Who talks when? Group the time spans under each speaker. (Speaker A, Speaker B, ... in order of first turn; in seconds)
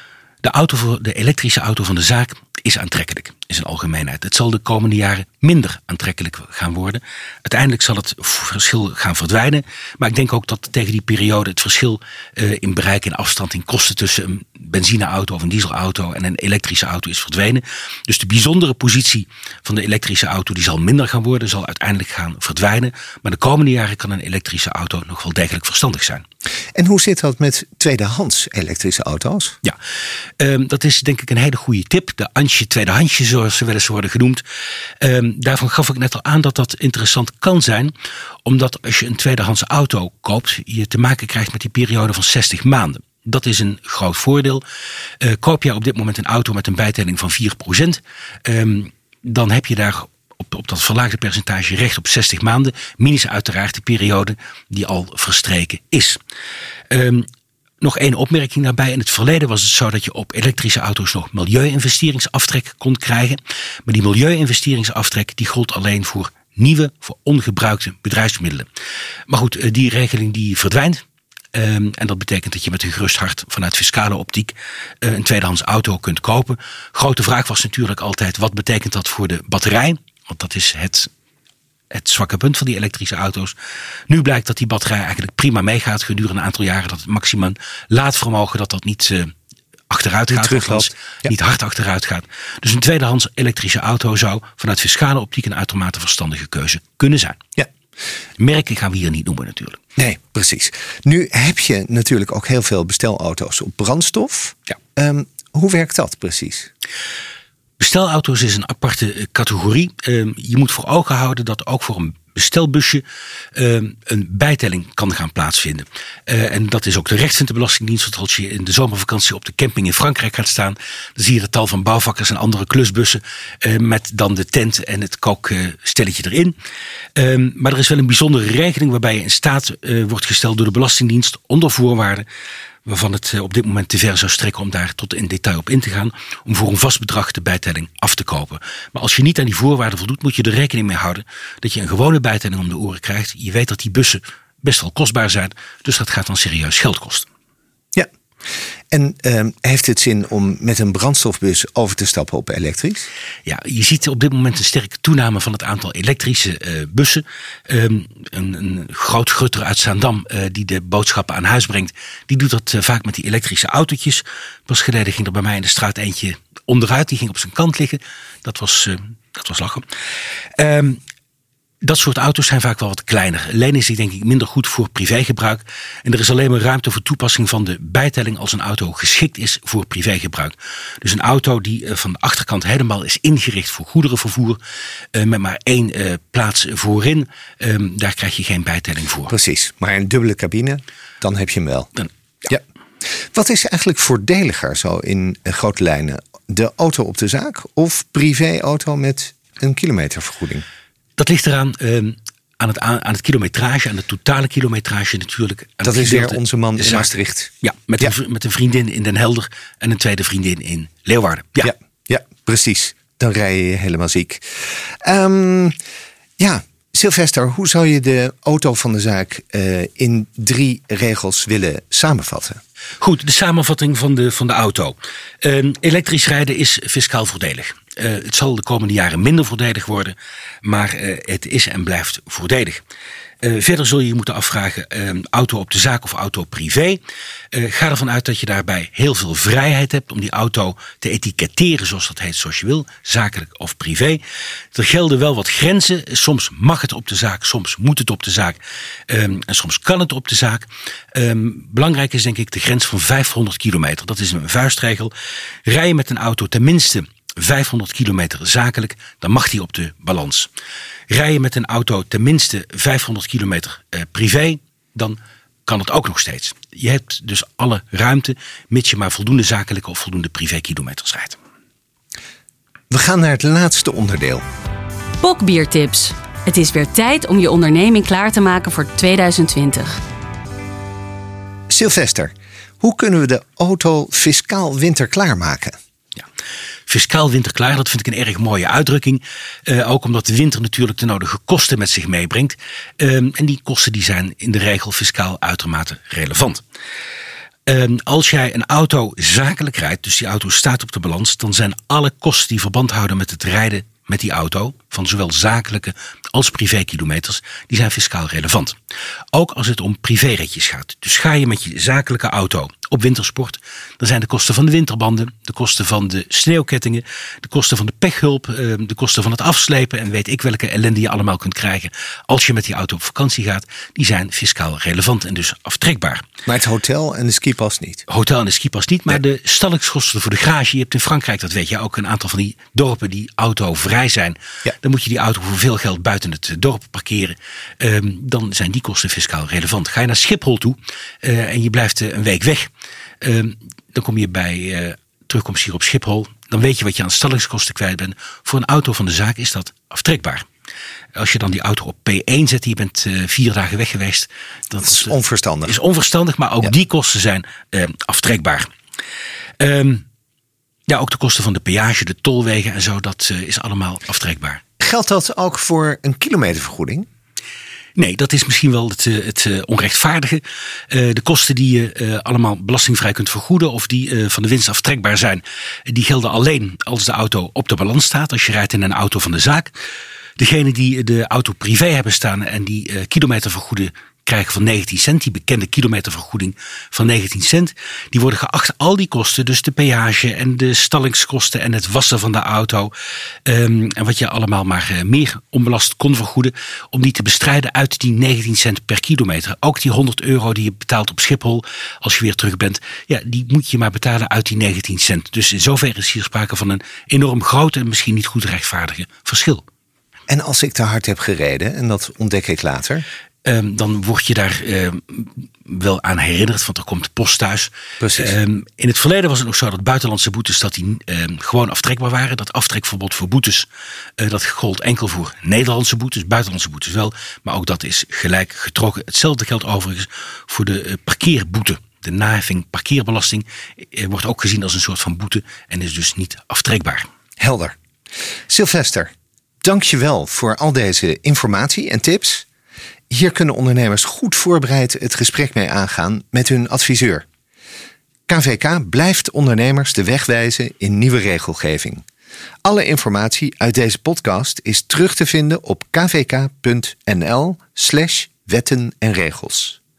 Speaker A: 0.4-26.2, 30.4-34.4, 35.0-37.9, 38.5-44.6, 45.2-56.2, 56.9-57.3, 57.8-68.7, 69.3-81.1, 81.9-83.6, 84.1-89.3, 89.9-97.4, 98.4-99.8, 107.8-113.0, 113.5-126.5, 127.2-132.3, 132.9-147.3, 153.5-169.8, 170.6-171.0, 171.8-184.6, 185.1-189.3, 201.2-211.7, 223.0-232.8, 233.4-237.0, 237.5-244.2, 244.7-255.1, 255.7-260.5, 261.1-271.4, 286.9-296.6, 297.7-308.8, 309.3-326.3, 328.1-342.7, 343.2-350.5, 351.1-355.1, 355.7-358.7, 359.6-360.0, 360.9-364.6, 368.0-379.7, 380.4-392.9, 393.5-409.6, 413.4-423.7, 424.2-437.1
Speaker B: 26.8-29.6, 90.3-91.3, 100.0-106.7, 148.9-153.1, 189.3-191.9, 193.3-200.6, 205.8-208.1, 211.6-215.8, 216.4-222.6, 272.9-274.4, 281.7-285.7, 326.5-328.1, 354.8-355.8, 364.8-367.1, 410.3-413.1, 418.0-418.4, 437.4-437.8, 438.5-439.1, 439.6-442.5, 443.1-447.2, 448.3-452.0, 452.6-459.8
Speaker C: 275.2-280.0